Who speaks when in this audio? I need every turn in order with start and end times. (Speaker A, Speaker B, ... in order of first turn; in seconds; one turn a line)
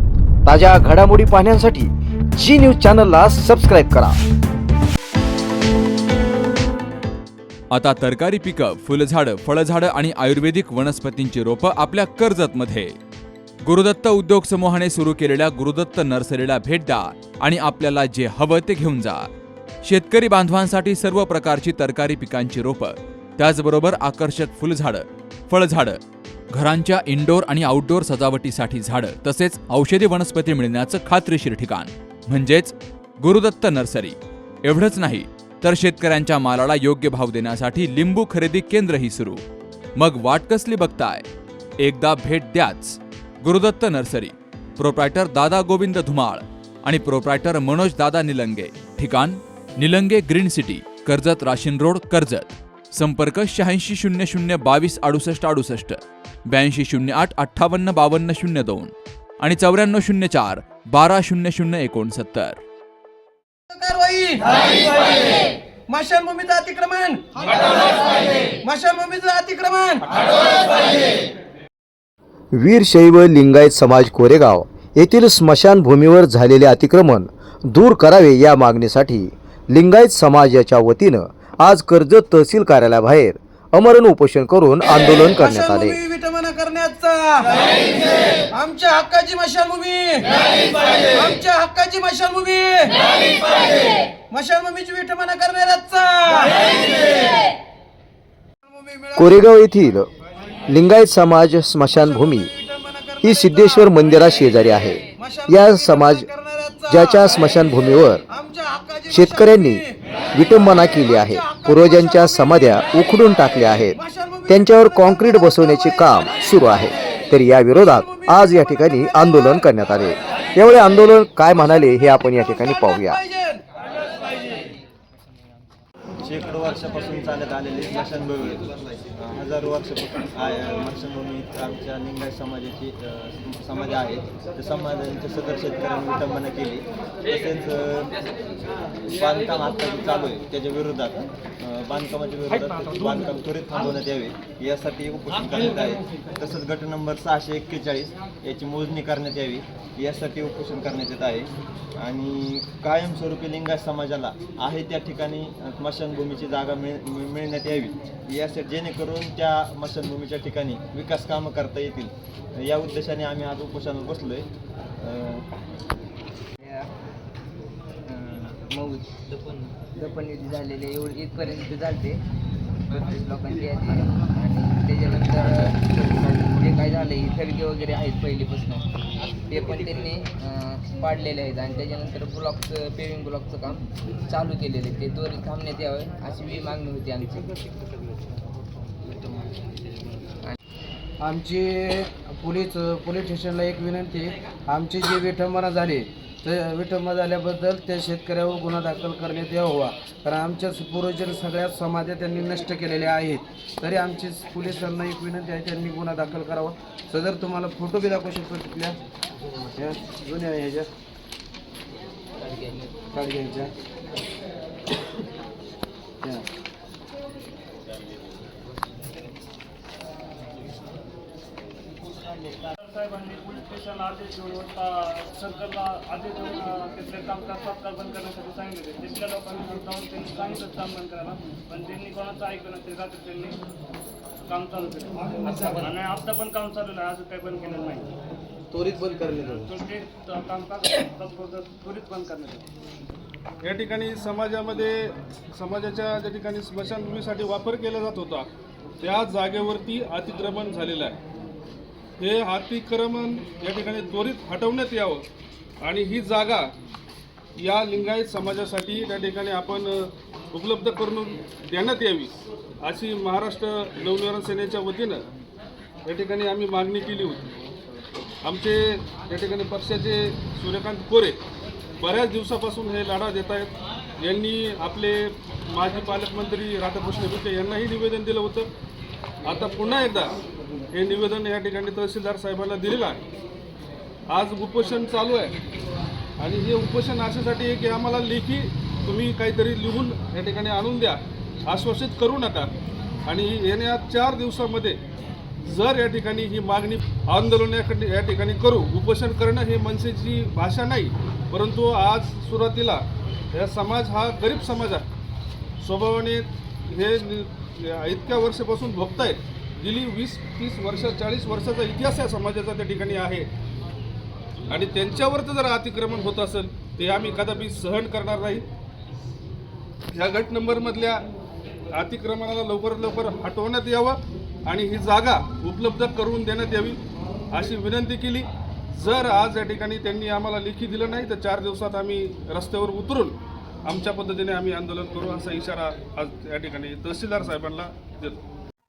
Speaker A: 0.4-4.2
Speaker B: 7.7-12.9
Speaker B: 13.7-19.3
Speaker B: 19.8-26.0
Speaker B: 26.5-39.4
Speaker B: 40.0-41.3
Speaker B: 41.8-62.6
Speaker C: 63.7-64.5
Speaker C: 65.9-67.9
Speaker C: 68.6-70.1
Speaker A: 72.5-86.0
Speaker C: 85.3-87.9
Speaker C: 88.5-90.3
Speaker C: 90.9-93.0
Speaker C: 94.3-96.7
Speaker A: 99.2-100.1
Speaker A: 100.7-102.5
Speaker C: 102.8-103.2
Speaker A: 103.2-106.3
Speaker A: 106.9-108.2
Speaker C: 108.5-109.0
Speaker A: 109.1-114.0
Speaker A: 114.5-123.2
Speaker D: 126.2-138.2
Speaker D: 139.1-164.5
Speaker D: 165.0-165.4
Speaker E: 168.1-169.1
Speaker E: 170.0-172.2
Speaker E: 172.9-178.9
Speaker E: 179.5-187.4
Speaker C: 191.2-208.9
Speaker C: 209.7-210.9
Speaker C: 213.1-213.7
Speaker F: 222.8-233.6
Speaker F: 234.5-238.1
Speaker C: 238.7-239.7
Speaker F: 239.6-242.7
Speaker G: 243.6-248.5
Speaker G: 249.0-251.2
Speaker G: 252.2-255.2
Speaker G: 255.8-256.7
Speaker G: 257.6-265.2
Speaker G: 266.1-267.5
Speaker G: 268.4-271.4
Speaker G: 272.0-278.7
Speaker G: 279.4-280.3
Speaker G: 280.9-283.2
Speaker G: 284.3-285.6
Speaker G: 286.4-292.7
Speaker G: 293.3-295.0
Speaker G: 295.7-303.0
Speaker G: 303.5-305.1
Speaker G: 305.8-313.5
Speaker G: 314.7-318.6
Speaker G: 320.1-321.2
Speaker G: 321.9-327.0
Speaker G: 327.5-333.4
Speaker G: 333.9-338.4